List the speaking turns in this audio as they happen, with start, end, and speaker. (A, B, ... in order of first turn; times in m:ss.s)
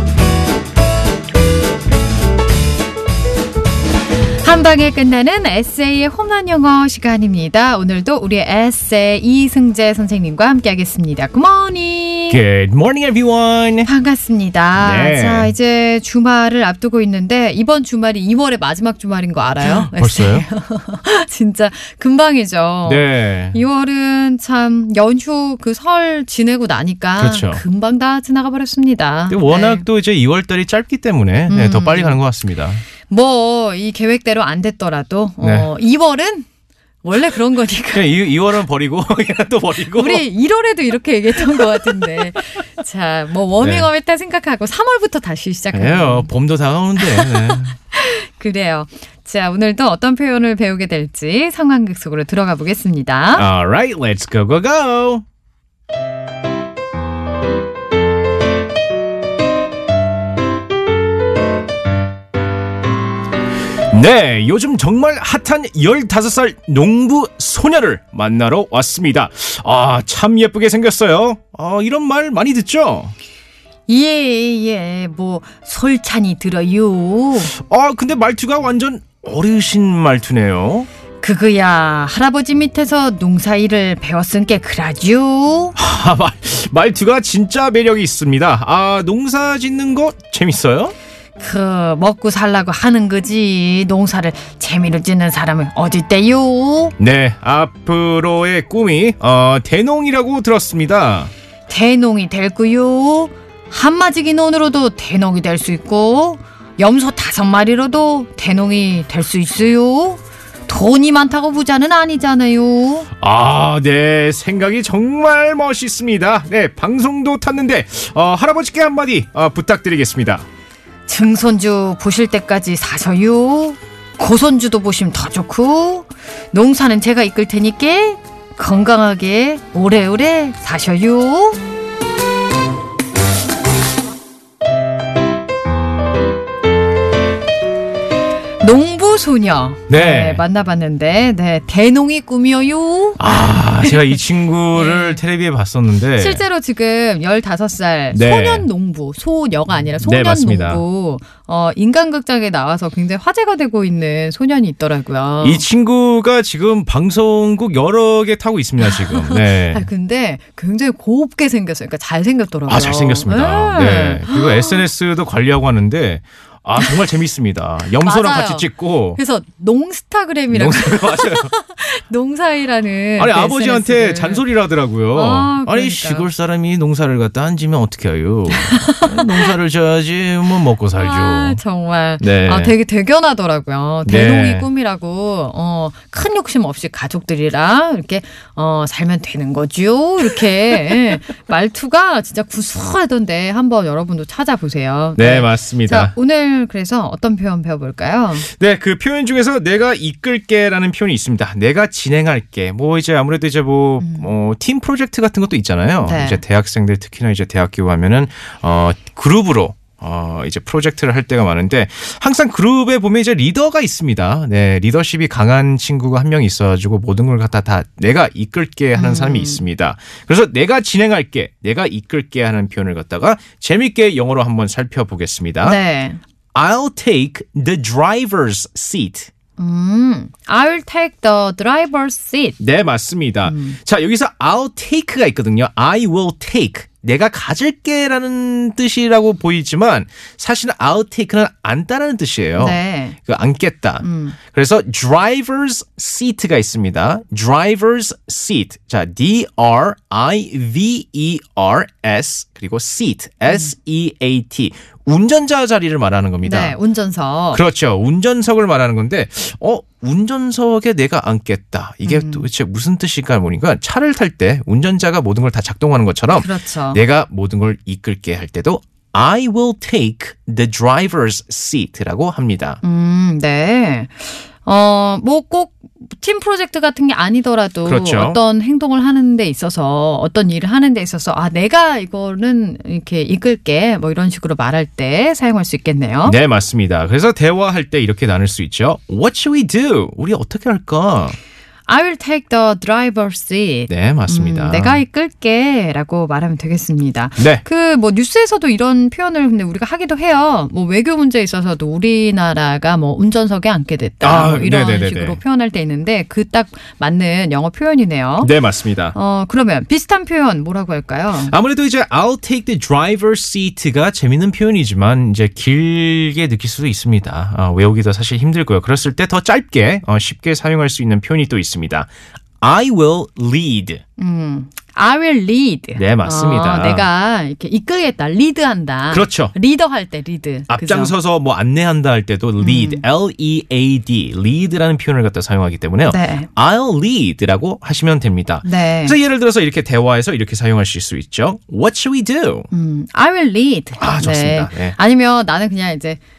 0:04.4-0:12.4 A
0:12.3-0:13.9 B
0:13.8-0:29.8 A
0:14.8-0:15.5 B
0:19.6-0:20.4 B
0:22.8-0:23.6 B
0:27.2-0:27.6 B
0:29.3-0:32.8 B
0:31.5-0:32.2 A
0:33.1-0:36.5 A
0:35.4-0:35.7 B
0:37.0-0:38.1 A
0:37.9-0:40.2 B
0:39.9-0:46.3 A
0:41.5-0:42.0 B
0:43.6-0:43.9 B
0:45.7-0:47.7 B
0:47.0-0:53.4 A
0:53.3-0:55.2 B
1:03.9-1:13.1 B
1:13.9-1:17.5 A
1:17.5-1:20.9 B
1:21.2-1:25.8 A
1:25.8-1:30.9 B
1:31.4-1:36.9 A
1:37.0-1:41.3 B
1:41.7-1:53.1 A
1:53.2-2:00.4 B
2:01.1-2:11.6 A
2:18.6-2:24.2 A
2:19.9-2:20.4 B
2:23.2-2:26.4 B
2:24.7-2:25.2 A
2:26.2-2:35.6 A
2:28.1-2:28.7 B
2:30.0-2:30.8 B
2:35.4-2:39.8 B
2:38.8-2:44.8 A
2:42.7-2:49.2 B
2:47.9-2:54.4 A
2:50.5-2:51.5 B
2:53.2-3:01.6 B
2:55.1-2:56.3 A
2:58.5-2:59.5 A
3:01.0-3:18.5 A
3:02.2-3:02.7 B
3:04.0-3:04.7 B
3:15.2-3:16.1 B
3:18.5-3:45.8 B
3:24.0-3:24.3 A
3:26.0-3:26.4 A
3:38.9-3:39.6 A
3:45.6-3:46.2 A
3:46.5-3:49.3 B
3:49.6-3:52.6 A
3:52.6-4:16.8 B
3:53.4-3:53.8 A
4:02.6-4:03.2 A
4:04.0-4:04.4 A
4:13.5-4:13.7 A
4:16.4-4:17.6 A
4:17.5-4:32.8 B
4:22.0-4:22.4 A
4:26.3-4:27.0 A
4:32.8-4:46.4 A
4:37.8-4:38.4 B
4:46.2-4:51.4 B
4:51.9-5:08.5 A
4:53.9-4:55.0 B
4:57.4-4:57.6 B
5:04.2-5:05.4 B
5:08.4-5:09.1 B
5:09.1-5:11.5 A
5:11.5-5:22.1 B
5:22.6-5:24.0 B
5:24.2-5:31.1 A
5:26.0-5:27.0 B
5:29.1-5:29.5 B
5:30.7-5:42.7 B
5:32.6-5:33.0 A
5:36.1-5:36.5 A
5:38.6-5:39.2 A
5:42.7-5:46.2 A
5:44.0-5:45.0 B